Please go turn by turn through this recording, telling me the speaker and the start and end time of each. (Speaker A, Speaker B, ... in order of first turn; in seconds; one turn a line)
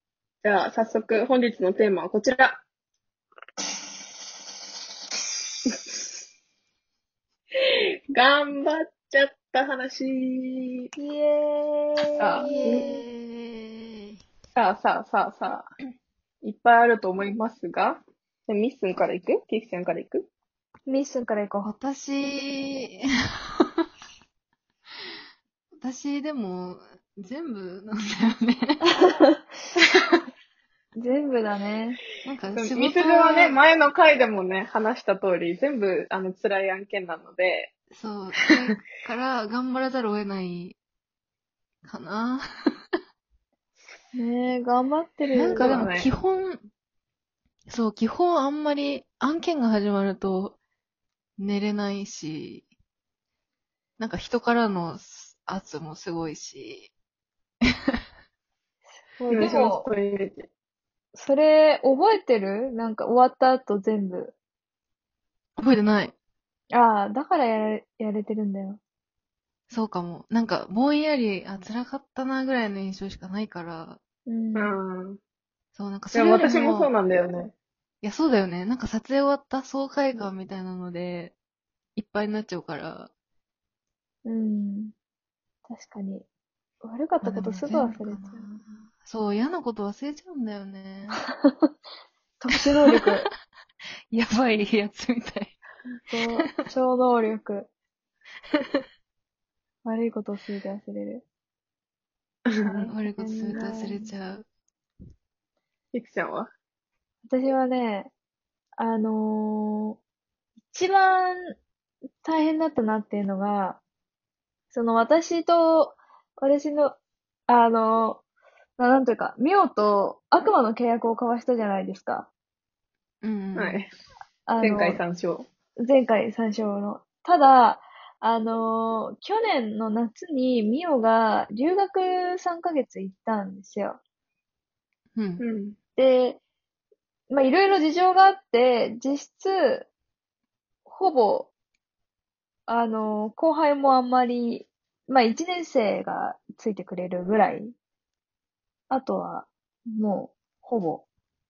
Speaker A: 0.4-2.6
Speaker A: 5.7-6.0
Speaker A: 8.1-10.9
Speaker B: 10.9-13.0
Speaker A: 12.2-12.8
Speaker C: 12.4-14.1
Speaker A: 14.5-15.6
Speaker A: 16.4-20.3
Speaker B: 20.9-21.7
Speaker C: 21.6-23.0
Speaker C: 23.6-23.9
Speaker C: 25.8-28.8
Speaker B: 28.9-29.4
Speaker B: 30.9-32.0
Speaker C: 32.2-33.6
Speaker A: 32.5-37.7
Speaker C: 37.9-40.8
Speaker C: 41.8-42.4
Speaker B: 44.1-45.8
Speaker C: 45.3-46.6
Speaker A: 45.5-46.1
Speaker C: 47.7-50.6
Speaker C: 51.4-52.6
Speaker C: 54.0-56.9
Speaker B: 59.2-59.9
Speaker A: 59.3-60.5
Speaker B: 61.1-64.3
Speaker C: 65.6-66.1
Speaker B: 66.7-68.8
Speaker C: 69.7-74.0
Speaker B: 74.2-74.8
Speaker A: 74.5-75.2
Speaker C: 75.7-76.9
Speaker A: 76.1-77.5
Speaker C: 78.0-81.3
Speaker C: 82.0-83.1
Speaker B: 84.2-84.9
Speaker B: 85.7-86.3
Speaker B: 86.8-88.6
Speaker C: 87.2-91.2
Speaker B: 91.4-91.7
Speaker B: 92.4-93.3
Speaker C: 92.9-93.2
Speaker C: 94.1-95.5
Speaker B: 95.9-97.7
Speaker B: 99.8-101.2
Speaker A: 102.5-102.9
Speaker B: 102.7-104.1
Speaker C: 102.8-104.5
Speaker A: 105.9-106.5
Speaker B: 107.3-108.1
Speaker B: 108.8-110.0
Speaker B: 110.7-111.5
Speaker B: 112.2-113.8
Speaker B: 114.7-118.2
Speaker B: 118.8-122.3
Speaker C: 123.2-123.8
Speaker A: 123.5-123.9
Speaker B: 124.5-125.0
Speaker A: 124.6-125.5
Speaker B: 125.8-134.0
Speaker C: 135.1-135.4
Speaker A: 135.4-135.8
Speaker B: 136.0-136.4
Speaker B: 137.3-139.9
Speaker B: 140.8-141.5
Speaker B: 142.7-147.7
Speaker B: 148.9-151.1